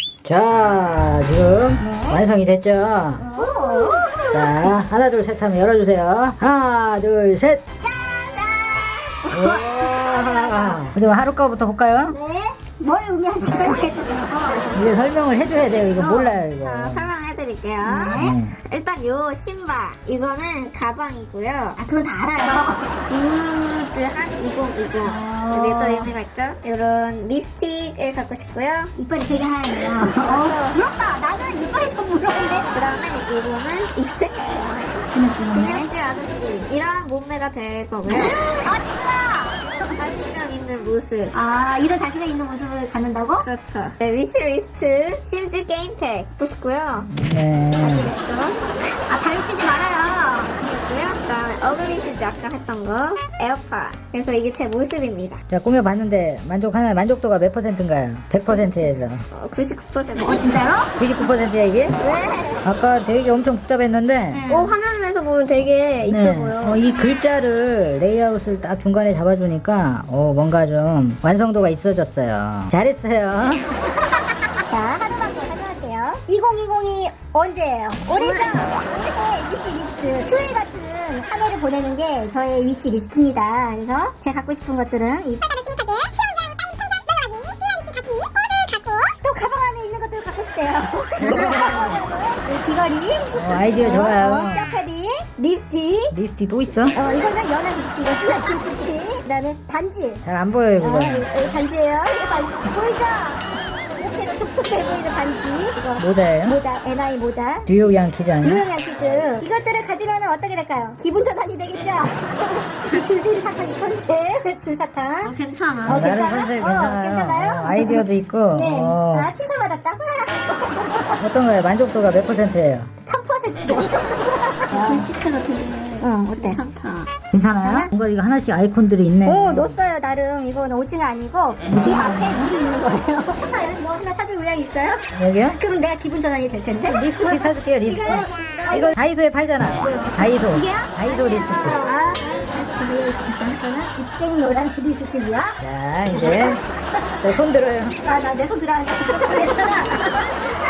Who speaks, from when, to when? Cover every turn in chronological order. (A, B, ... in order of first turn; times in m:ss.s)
0:00.2-0:03.2 A
0:01.8-0:02.2 B
0:03.2-0:04.8 B
0:03.4-0:04.0 C
0:04.3-0:07.6 A
0:07.8-0:09.6 B
0:09.3-0:12.2 A
0:09.4-0:10.8 C
0:10.2-0:10.7 B
0:12.1-0:14.9 B
0:14.7-0:17.1 A
0:15.9-0:16.4 B
0:16.4-0:21.8 C
0:17.8-0:18.4 B
0:18.1-0:18.6 A
0:21.8-0:23.1 B
0:23.1-0:28.9 C
0:25.0-0:26.1 B
0:29.0-0:32.7 B
0:29.9-0:30.8 C
0:32.7-0:38.6 C
0:35.1-0:35.9 B
0:38.1-0:40.0 B
0:39.9-0:41.3 C
0:41.3-0:43.4 B
0:43.4-0:47.1 C
0:47.1-0:48.1 A
0:47.8-0:48.6 C
0:49.1-0:50.6 B
0:50.6-0:55.4 C
0:55.5-0:59.2 A
0:58.6-1:00.6 C
1:00.2-1:00.9 B
1:01.0-1:01.9 A
1:02.0-1:02.7 C
1:02.6-1:04.4 A
1:04.3-1:04.7 B
1:04.5-1:06.8 C
1:06.0-1:13.7 A
1:14.7-1:36.1 B
1:18.1-1:18.8 C
1:24.4-1:25.0 C
1:31.2-1:32.0 A
1:31.5-1:31.8 C
1:33.3-1:34.7 A
1:36.1-1:37.0 A
1:36.9-1:40.2 B
1:38.1-1:39.2 C
1:40.2-1:41.6 A
1:40.8-1:47.7 B
1:46.0-1:46.6 A
1:47.6-1:48.6 A
1:48.4-1:52.1 B
1:48.5-1:49.4 C
1:51.2-1:52.5 C
1:52.8-1:55.3 B
1:55.2-1:56.1 C
1:55.8-1:59.3 A
1:55.8-2:01.2 B
2:01.2-2:02.9 A
2:03.0-2:05.0 B
2:03.6-2:03.9 C
2:04.7-2:07.1 C
2:06.0-2:06.6 B
2:07.3-2:09.8 A
2:07.6-2:07.9 B
2:09.2-2:18.9 B
2:11.6-2:12.5 A
2:15.1-2:15.6 A
2:16.8-2:21.9 A
2:18.1-2:18.7 C
2:19.8-2:25.6 B
2:21.9-2:22.2 C
2:25.6-2:26.6 A
2:26.1-2:26.6 B
2:27.2-2:28.0 A
2:28.0-2:30.3 B